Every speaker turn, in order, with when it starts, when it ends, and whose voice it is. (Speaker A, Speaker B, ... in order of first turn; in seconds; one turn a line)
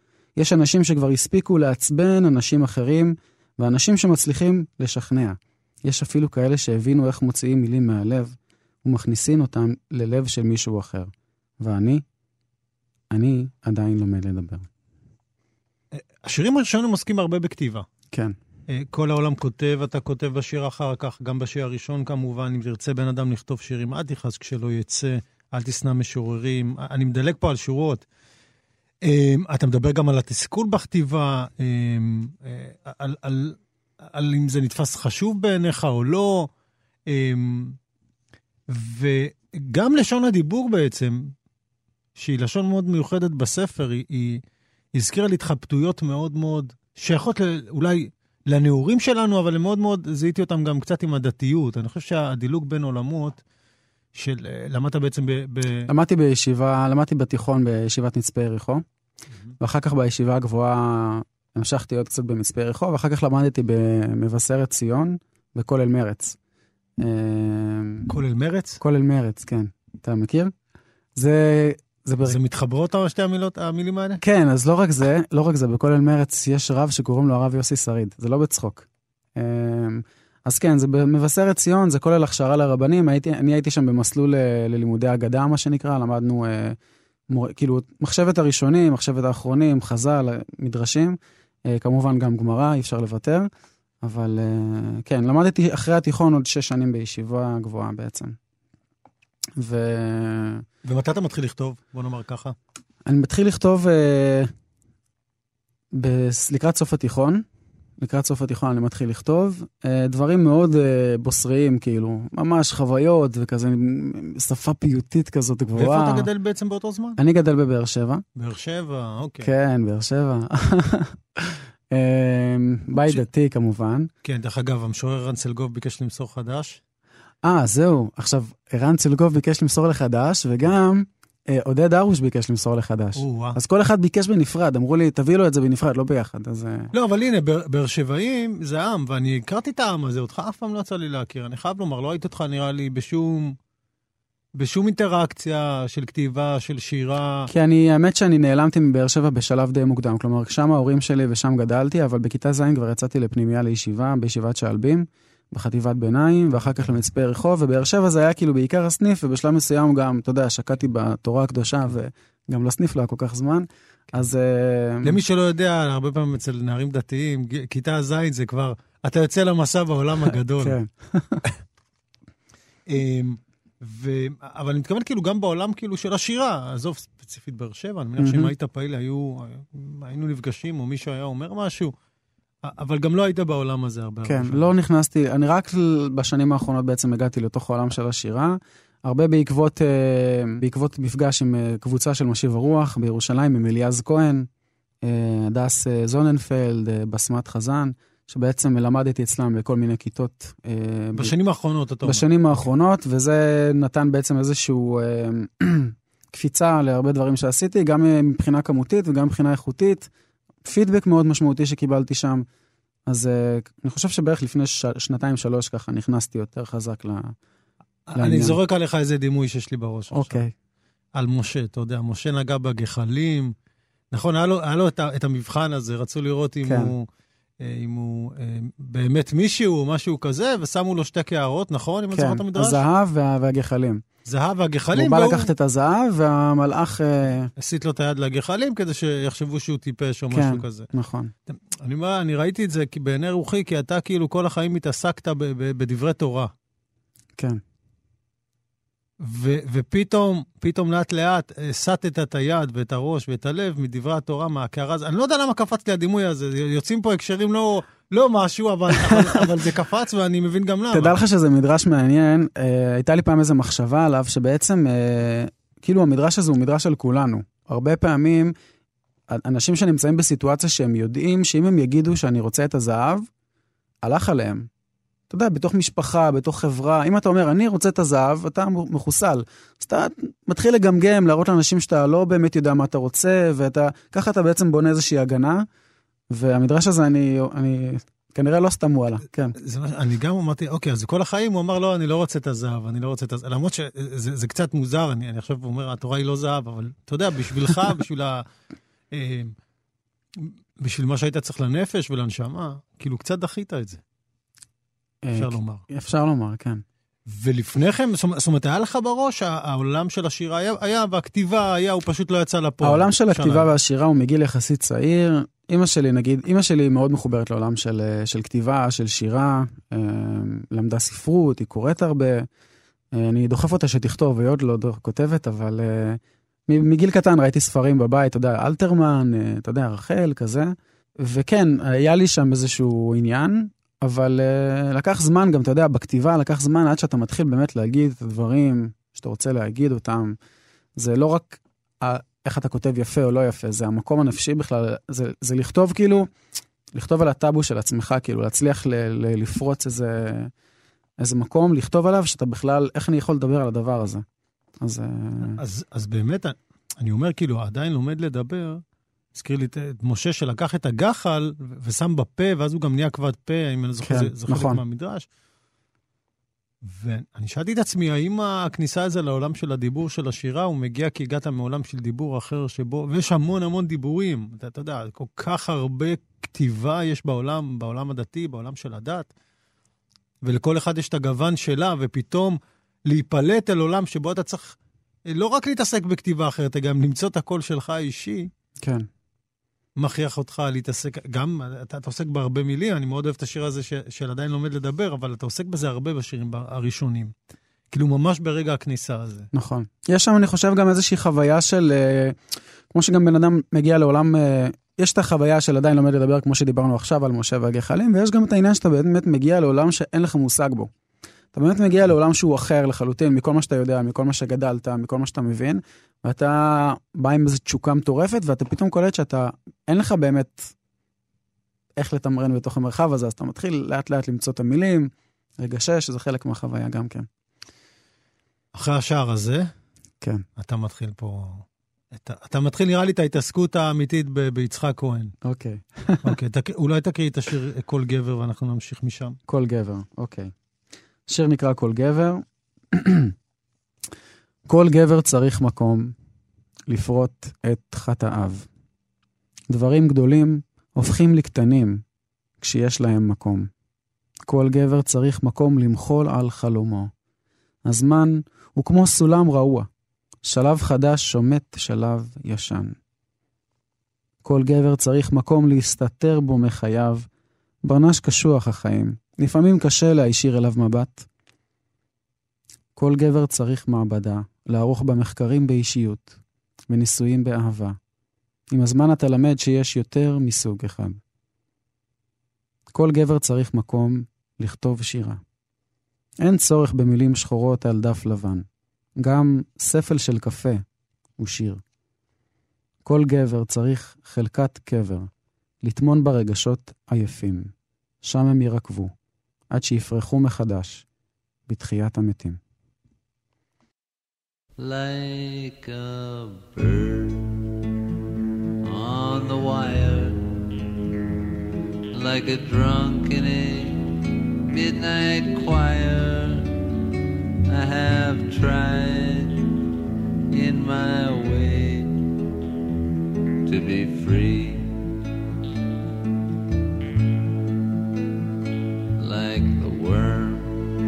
Speaker A: 0.3-12.0
Speaker A: 13.1-14.7
Speaker B: 15.9-17.9
Speaker B: 18.7-28.0
Speaker B: 29.0-36.5
Speaker B: 37.1-37.8
Speaker B: 38.7-41.3
Speaker B: 42.1-44.4
Speaker B: 44.9-53.4
Speaker B: 54.1-55.9
Speaker A: 55.9-58.8
Speaker A: 59.6-66.4
Speaker A: 67.0-68.1
Speaker B: 68.1-68.8
Speaker A: 68.8-70.5
Speaker A: 71.2-72.4
Speaker B: 72.2-74.2
Speaker A: 74.2-86.8
Speaker A: 87.3-93.5
Speaker A: 94.0-98.3
Speaker A: 99.6-100.6
Speaker B: 100.8-102.5
Speaker A: 103.0-104.5
Speaker A: 105.9-107.4
Speaker A: 108.0-116.3
Speaker B: 115.7-117.2
Speaker A: 117.2-118.2
Speaker B: 118.3-119.5
Speaker A: 119.4-124.1
Speaker B: 124.2-126.8
Speaker A: 127.4-136.9
Speaker B: 133.2-133.6
Speaker B: 136.9-143.6
Speaker B: 144.6-147.5
Speaker A: 147.5-165.2
Speaker B: 165.0-170.8
Speaker A: 170.6-171.4
Speaker B: 172.9-181.9
Speaker A: 178.2-178.5
Speaker B: 182.6-184.7
Speaker A: 184.2-194.5
Speaker A: 195.0-201.3
Speaker B: 201.1-202.7
Speaker A: 202.0-210.1
Speaker A: 210.6-212.4
Speaker A: 213.1-217.3
Speaker B: 218.1-220.4
Speaker A: 218.2-218.6
Speaker A: 220.1-220.5
Speaker B: 221.1-223.5
Speaker B: 224.1-227.1
Speaker A: 226.6-226.9
Speaker B: 227.6-232.8
Speaker A: 232.1-234.0
Speaker B: 234.2-235.5
Speaker A: 234.9-237.5
Speaker B: 237.6-240.9
Speaker A: 240.3-241.3
Speaker B: 241.5-246.5
Speaker B: 249.2-261.2
Speaker A: 259.0-259.5
Speaker A: 260.9-268.5
Speaker A: 269.3-273.2
Speaker A: 274.0-274.7
Speaker A: 275.3-285.6
Speaker A: 286.3-289.5
Speaker B: 289.6-298.4
Speaker B: 299.1-299.5
Speaker B: 300.4-304.0
Speaker A: 305.2-306.8
Speaker B: 305.3-305.8
Speaker B: 307.3-313.7
Speaker A: 312.8-322.5
Speaker A: 323.1-340.4
Speaker A: 340.9-346.3
Speaker A: 346.9-350.5
Speaker A: 351.2-354.2
Speaker A: 354.8-355.6
Speaker B: 355.4-358.8
Speaker B: 359.3-365.3
Speaker A: 364.0-364.8
Speaker B: 366.8-379.3
Speaker B: 380.4-384.8
Speaker B: 385.3-388.5
Speaker A: 388.8-389.1
Speaker B: 390.0-397.3
Speaker B: 397.9-399.5
Speaker A: 399.5-410.9
Speaker A: 411.5-420.7
Speaker A: 422.0-427.3
Speaker B: 428.7-429.7
Speaker B: 430.6-435.3
Speaker A: 435.4-436.3
Speaker B: 436.2-439.4
Speaker A: 439.5-440.5
Speaker A: 441.3-443.3
Speaker A: 444.7-446.1
Speaker A: 446.9-448.7
Speaker A: 449.7-452.0
Speaker A: 452.6-453.7
Speaker A: 454.4-457.1
Speaker A: 457.8-459.9
Speaker A: 460.4-462.9
Speaker A: 464.4-467.3
Speaker A: 467.8-471.3
Speaker A: 472.9-476.4
Speaker A: 476.9-478.0
Speaker A: 478.7-481.2
Speaker A: 482.9-485.4
Speaker A: 486.4-488.6
Speaker A: 489.2-490.8
Speaker A: 491.4-491.8
Speaker A: 493.0-495.3
Speaker A: 495.8-499.1
Speaker A: 499.7-501.0
Speaker A: 501.7-502.6
Speaker C: 504.8-507.6
Speaker C: 508.8-510.7
Speaker C: 512.1-516.7
Speaker C: 517.6-519.8
Speaker C: 520.5-522.2
Speaker C: 523.6-525.0
Speaker C: 529.2-530.8